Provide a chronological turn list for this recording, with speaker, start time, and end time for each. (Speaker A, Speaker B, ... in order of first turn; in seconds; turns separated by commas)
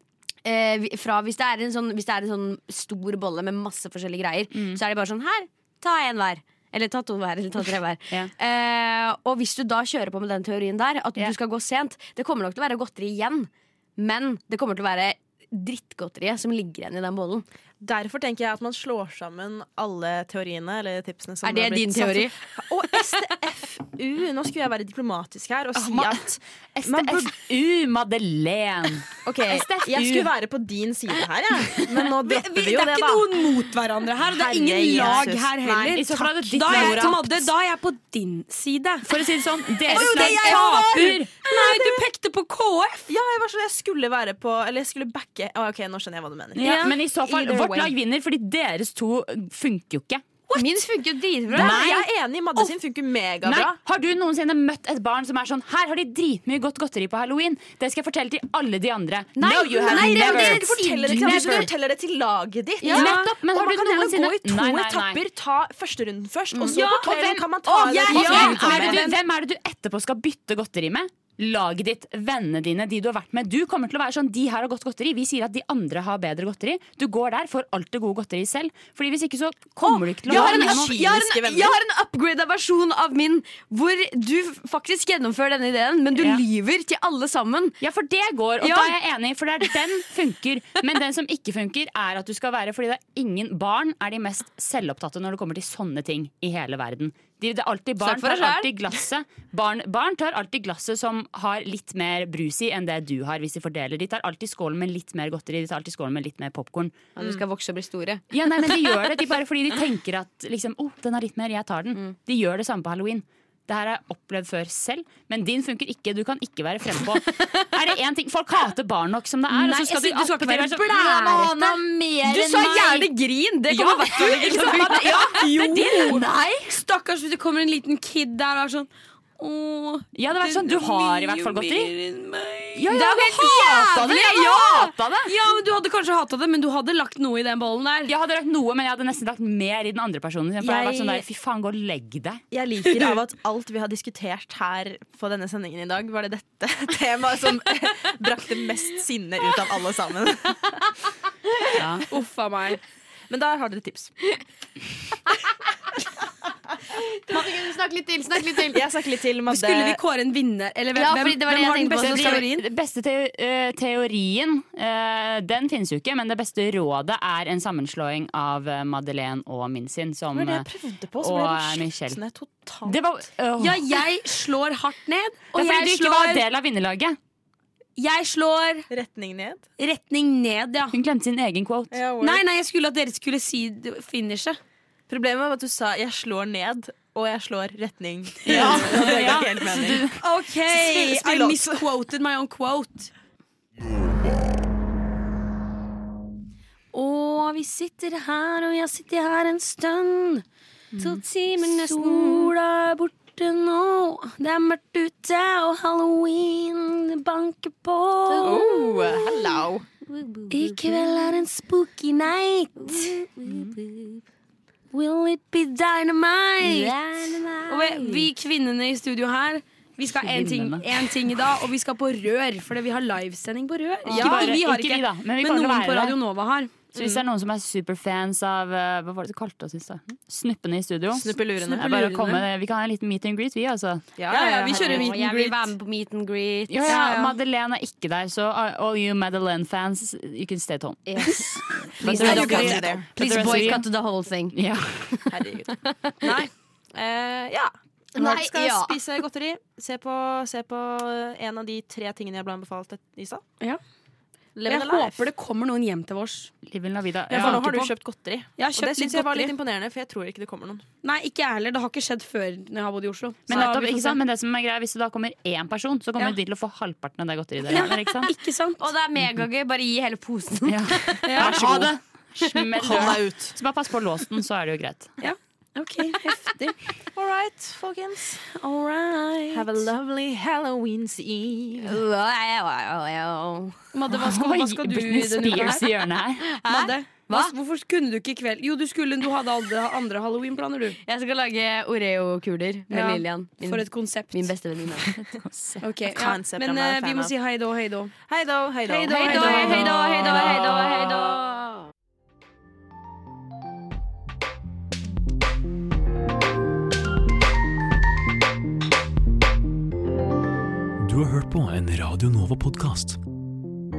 Speaker A: 0.5-17.5, Speaker B: 4.5-4.8, Speaker C: 17.8-27.3, Speaker A: 21.4-22.4, Speaker B: 25.8-30.3, Speaker C: 29.2-33.4, Speaker D: 32.2-39.1, Speaker C: 34.2-37.3, Speaker B: 35.9-37.5, Speaker B: 39.0-41.3, Speaker D: 39.8-43.1, Speaker C: 39.9-41.2, Speaker C: 43.1-47.9, Speaker B: 46.5-50.2, Speaker D: 46.6-47.0, Speaker D: 50.5-50.8, Speaker A: 50.5-51.8, Speaker B: 51.5-52.1, Speaker C: 51.5-53.8, Speaker B: 53.4-61.7, Speaker A: 59.4-61.6, Speaker C: 59.8-69.0, Speaker D: 62.8-64.3, Speaker B: 62.9-65.2, Speaker D: 66.6-69.2, Speaker B: 66.8-67.5, Speaker B: 68.0-80.9, Speaker A: 68.0-68.7, Speaker A: 79.8-87.8, Speaker C: 80.2-81.7, Speaker B: 86.2-86.4, Speaker B: 87.8-107.0, Speaker A: 88.6-88.9, Speaker A: 98.0-98.7, Speaker A: 107.2-108.8, Speaker B: 108.3-123.1, Speaker A: 119.5-125.5, Speaker D: 119.7-120.1, Speaker B: 123.7-126.8, Speaker D: 124.1-138.1, Speaker B: 130.2-131.9, Speaker B: 132.7-135.3, Speaker A: 132.9-133.4, Speaker B: 138.1-142.4, Speaker C: 140.6-141.3, Speaker C: 142.5-150.9, Speaker B: 151.8-152.1, Speaker D: 152.1-152.8, Speaker C: 153.3-154.1, Speaker A: 156.9-158.8, Speaker C: 158.7-160.0, Speaker D: 159.5-162.7, Speaker A: 160.9-162.5, Speaker B: 162.0-170.7, Speaker C: 170.3-173.0, Speaker B: 171.2-172.2, Speaker B: 172.8-174.0, Speaker D: 173.6-176.4, Speaker B: 175.5-177.2, Speaker D: 178.0-178.9, Speaker C: 178.9-179.6, Speaker D: 179.8-181.0, Speaker B: 180.9-182.0, Speaker C: 181.9-182.4, Speaker D: 182.2-184.6, Speaker C: 185.1-190.1, Speaker D: 188.4-189.4, Speaker B: 188.5-190.2, Speaker D: 190.2-193.1, Speaker C: 190.7-191.9, Speaker D: 196.9-200.4, Speaker D: 201.0-208.7, Speaker A: 201.6-202.5, Speaker A: 208.3-211.5, Speaker C: 208.4-209.8, Speaker D: 210.5-213.2, Speaker A: 212.8-214.2, Speaker D: 214.9-216.9, Speaker A: 216.6-218.3, Speaker D: 217.7-226.8, Speaker B: 220.2-220.9, Speaker C: 224.1-224.6, Speaker B: 224.1-226.2, Speaker B: 226.9-234.1, Speaker C: 227.0-227.2, Speaker C: 231.1-232.2, Speaker D: 231.7-232.4, Speaker C: 234.2-235.2, Speaker D: 234.3-235.7, Speaker A: 234.7-236.9, Speaker B: 236.7-243.9, Speaker D: 236.8-237.3, Speaker A: 241.1-241.5, Speaker A: 242.0-244.6, Speaker C: 242.0-243.7, Speaker D: 242.1-242.7, Speaker B: 244.5-245.3, Speaker C: 245.3-253.4, Speaker A: 245.8-246.2, Speaker D: 246.2-246.5, Speaker A: 248.2-249.0, Speaker C: 254.6-255.3, Speaker D: 254.7-256.5, Speaker B: 256.6-257.7, Speaker C: 257.3-260.8, Speaker D: 257.4-257.9, Speaker D: 258.6-259.5, Speaker D: 261.0-264.2, Speaker B: 263.5-268.3, Speaker D: 267.7-268.9, Speaker A: 268.8-271.4, Speaker B: 269.2-269.4, Speaker B: 270.6-275.1, Speaker D: 271.3-271.8, Speaker C: 271.3-271.9, Speaker C: 272.8-273.6, Speaker D: 275.2-276.8, Speaker C: 277.1-278.4, Speaker D: 278.6-279.9, Speaker C: 279.5-282.0, Speaker A: 281.8-283.9, Speaker D: 283.9-285.9, Speaker B: 284.1-286.5, Speaker A: 286.6-287.5, Speaker D: 286.6-291.0, Speaker A: 291.1-295.1, Speaker D: 292.9-294.5, Speaker B: 295.1-295.8, Speaker D: 295.8-298.1, Speaker C: 296.1-297.3, Speaker C: 298.3-301.0, Speaker D: 298.9-300.6, Speaker A: 299.2-301.8, Speaker E: 311.0-313.2